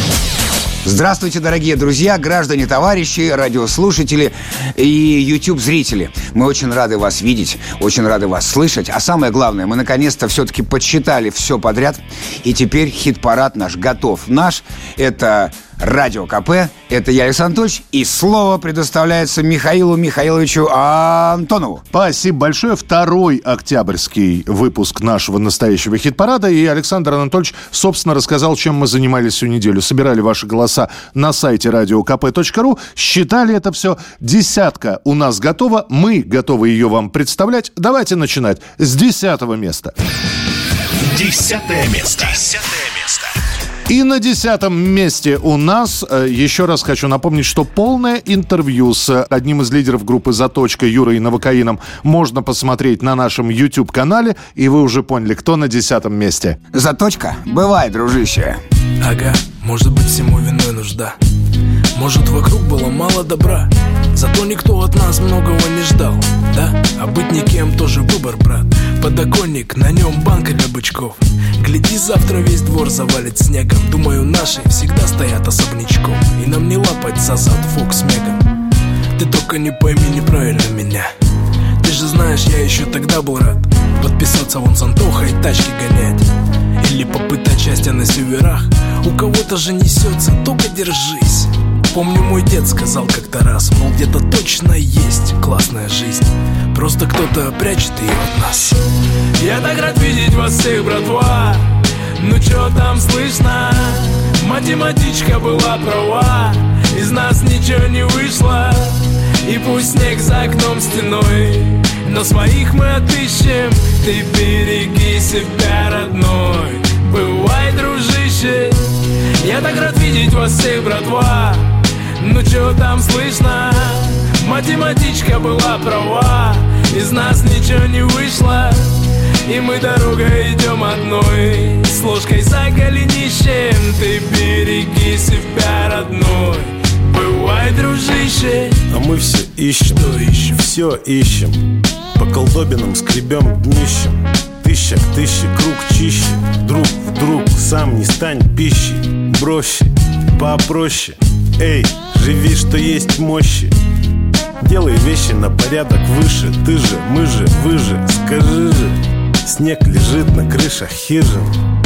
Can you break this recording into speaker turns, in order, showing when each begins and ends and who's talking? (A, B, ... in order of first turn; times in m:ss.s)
0:00.8-0:21.8 A
0:21.9-0:39.9 B
0:41.0-0:43.3 C
0:43.9-0:56.6 B
0:56.7-0:58.6 A
0:59.0-1:01.1 D
1:01.9-1:18.4 D
1:19.2-1:21.1 D
1:21.8-1:26.2 D
1:26.8-1:38.8 D
1:39.4-1:41.6 D
1:42.2-2:01.7 D
2:02.2-2:08.9 D
2:09.4-2:18.8 D
2:18.9-2:33.7 E
2:20.0-2:20.5 D
2:34.6-2:41.5 E